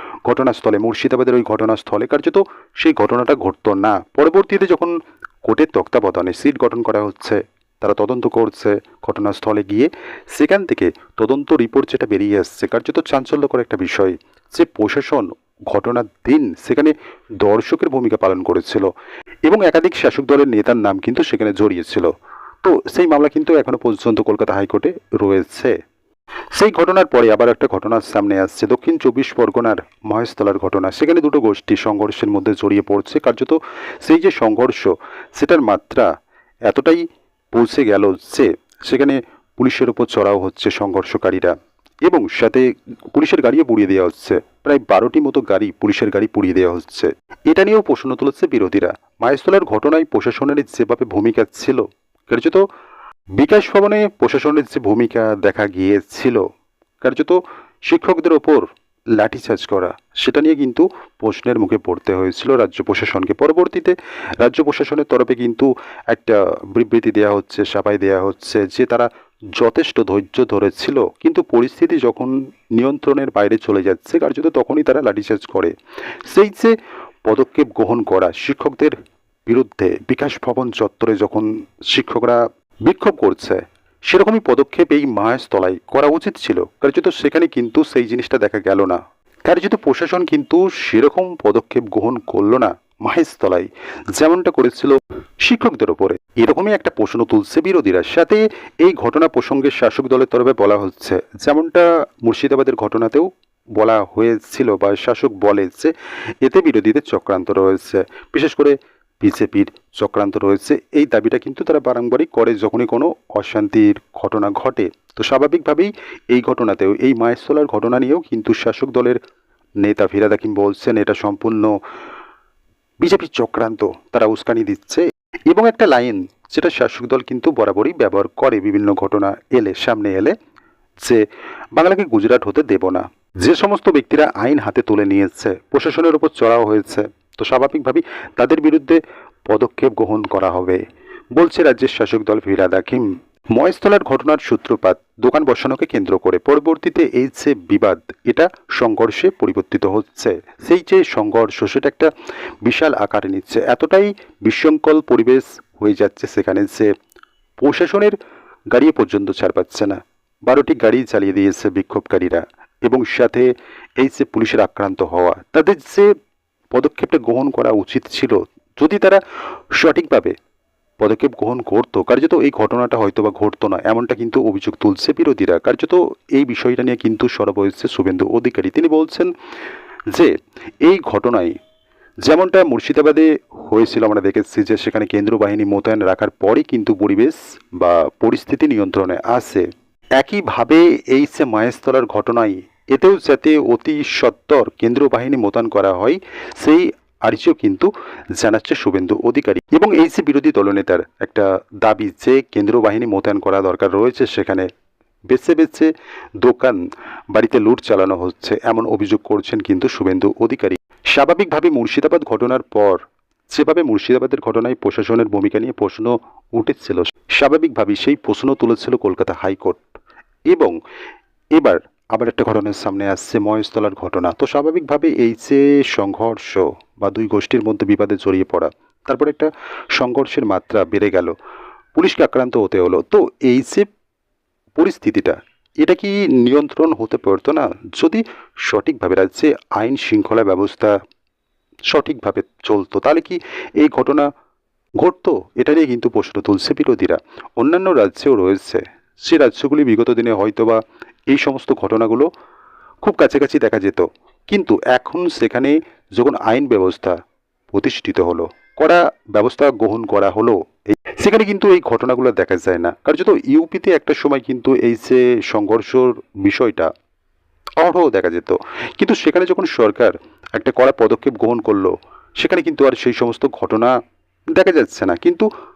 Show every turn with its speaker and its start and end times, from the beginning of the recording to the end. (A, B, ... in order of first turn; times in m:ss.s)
0:00.3-0:18.9 A
0:19.5-0:25.8 A
0:26.5-0:36.1 A
0:36.7-0:41.5 A
0:42.0-0:52.6 A
0:53.4-0:56.4 A
0:57.0-1:15.7 A
1:16.3-1:16.7 A
1:17.3-1:59.2 A
1:59.8-2:01.7 A
2:03.0-2:10.4 A
2:11.8-2:20.8 A
2:21.4-2:32.1 A
2:32.6-2:36.9 A
2:37.6-2:38.2 A
2:38.7-2:46.1 A
2:46.7-2:49.2 A
2:49.8-2:50.4 A
2:51.0-2:59.3 A
3:00.8-3:01.6 A
3:02.2-3:09.7 A
3:10.2-3:24.7 A
3:25.3-3:26.8 A
3:27.3-3:39.9 A
3:40.5-3:40.8 A
3:41.6-3:51.3 A
3:52.0-3:53.9 A
3:54.8-4:01.0 A
4:01.9-4:04.3 A
4:05.0-4:12.3 A
4:13.0-4:17.2 A
4:17.7-4:26.9 A
4:27.8-4:34.0 A
4:34.5-4:35.5 A